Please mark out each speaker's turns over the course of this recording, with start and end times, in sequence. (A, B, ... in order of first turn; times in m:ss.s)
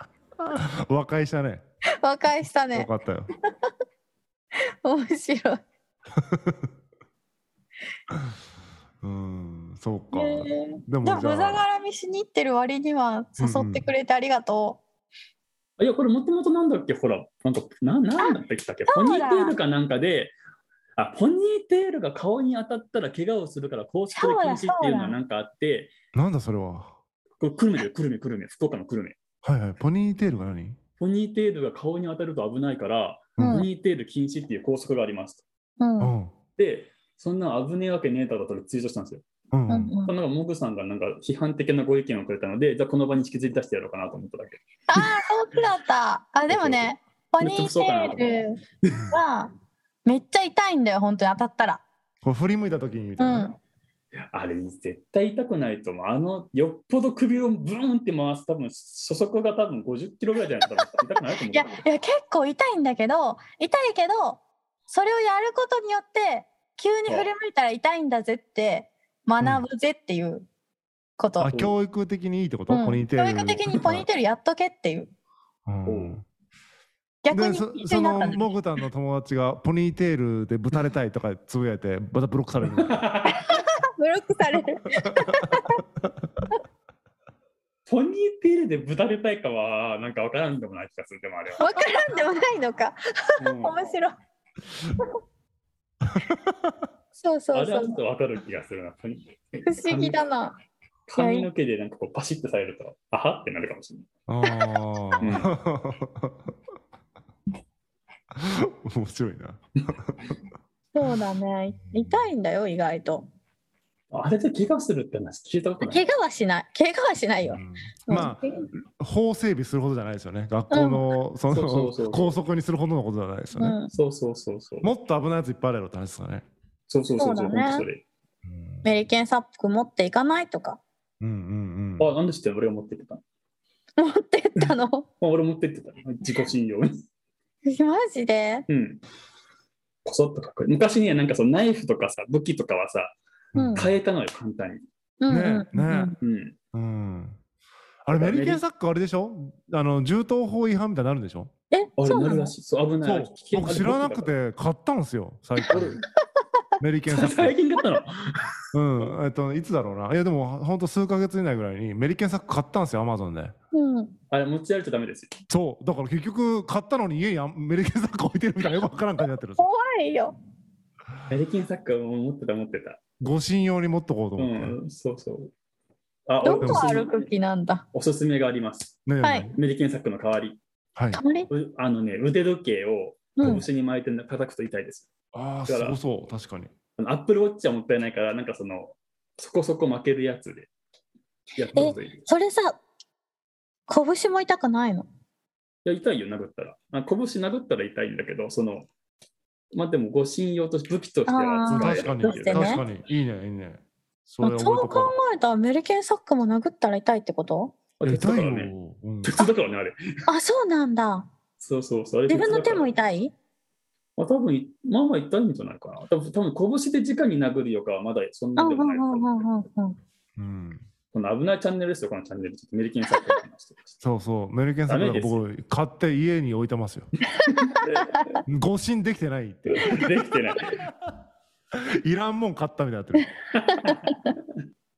0:00.4-0:01.6 A
0:02.0-0:02.9 B
0:02.7-0:03.3 A
0:04.6-0:05.6 B
0:06.1-0:06.7 A
0:09.0-0:11.6 A
0:10.1-0:14.8 B
0:13.4-0:13.9 A
0:15.8-0:20.3 C
0:18.9-0:19.6 B
0:21.0-0:25.9 C
0:24.1-0:25.2 B
0:26.1-0:26.9 A
0:27.4-0:29.2 C
0:29.4-0:30.8 A
0:31.0-0:35.4 C
0:33.4-0:33.6 A
0:33.4-0:33.7 B
0:35.8-0:36.1 B
0:36.0-0:36.3 A
0:36.6-0:39.2 C
0:39.5-0:39.9 A
0:39.7-0:40.1 B
0:40.0-0:44.6 C
0:44.9-0:48.6 B
0:46.5-0:46.9 C
0:47.4-0:49.0 C
0:49.1-0:49.5 B
0:50.0-0:51.8 B
0:52.2-0:53.5 A
0:53.2-0:53.6 B
0:54.1-1:01.8 C
1:01.5-1:10.5 B
1:11.2-1:11.6 B
1:11.4-1:14.0 A
1:12.7-1:15.1 B
1:15.6-1:16.2 A
1:15.8-1:16.2 C
1:17.2-1:18.5 B
1:17.3-1:22.9 A
1:22.7-1:23.6 C
1:23.3-1:25.8 B
1:25.0-1:26.1 A
1:27.9-1:31.8 C
1:31.6-1:34.1 B
1:33.4-1:33.8 C
1:36.0-1:36.7 A
1:37.2-1:38.0 B
1:37.5-1:40.2 C
1:39.6-1:40.6 B
1:41.1-1:44.1 C
1:41.2-1:41.5 B
1:44.3-1:46.5 A
1:45.2-1:45.5 C
1:48.3-1:50.3 A
1:50.9-1:53.3 B
1:51.9-1:52.3 A
1:54.1-1:56.0 C
1:55.8-1:58.7 B
1:57.4-2:03.8 A
2:00.7-2:01.2 B
2:01.5-2:02.4 C
2:03.5-2:03.9 B
2:03.9-2:04.9 C
2:04.8-2:06.4 A
2:06.9-2:08.0 C
2:07.2-2:07.8 B
2:08.4-2:08.8 A
2:08.8-2:10.8 B
2:11.2-2:12.1 A
2:12.0-2:13.2 C
2:14.0-2:15.0 B
2:14.6-2:17.0 C
2:17.6-2:18.7 B
2:18.7-2:19.0 C
2:20.0-2:23.2 C
2:23.5-2:23.8 B
2:23.5-2:23.9 A
2:23.7-2:24.8 C
2:25.2-2:26.1 B
2:25.3-2:26.1 A
2:26.2-2:26.6 C
2:26.7-2:27.4 A
2:28.0-2:31.5 A
2:28.1-2:28.6 C
2:31.7-2:32.5 B
2:32.0-2:34.3 C
2:33.0-2:36.0 A
2:35.6-2:35.8 B
2:35.7-2:36.0 C
2:36.8-2:37.6 A
2:37.1-2:39.1 C
2:38.7-2:43.5 A
2:43.7-2:44.2 B
2:44.3-2:45.3 C
2:45.5-2:49.6 A
2:49.6-2:50.4 B
2:51.3-2:53.0 C
2:53.2-2:54.8 A
2:54.4-2:55.5 C
2:56.3-2:57.3 C
2:56.4-2:57.8 B
2:56.6-2:56.9 A
2:57.9-2:59.0 C
2:59.0-2:59.6 A
2:59.2-2:59.5 B
2:59.6-3:00.6 C
3:01.0-3:01.2 A
3:01.1-3:01.5 B
3:01.5-3:05.1 C
3:03.4-3:03.6 B
3:05.3-3:06.7 A
3:05.7-3:06.0 C
3:07.0-3:10.7 C
3:11.6-3:12.2 C
3:11.7-3:12.8 B
3:13.9-3:15.1 B
3:15.8-3:18.9 C
3:19.7-3:22.8 C
3:21.3-3:22.8 B
3:21.7-3:25.1 A
3:24.4-3:27.7 B
3:28.0-3:30.0 C
3:28.0-3:29.4 A
3:30.3-3:31.3 B
3:31.6-3:32.9 C
3:32.3-3:33.3 B
3:34.2-3:39.5 C
3:38.6-3:40.0 B
3:40.4-3:40.8 A
3:41.1-3:44.0 C
3:44.0-3:47.1 A
3:44.9-3:45.4 C
3:47.4-3:48.4 C
3:48.4-3:50.0 A
3:49.6-3:50.9 C
3:50.8-3:51.1 A
3:51.7-3:53.3 A
3:53.5-3:54.2 C
3:53.8-3:54.2 B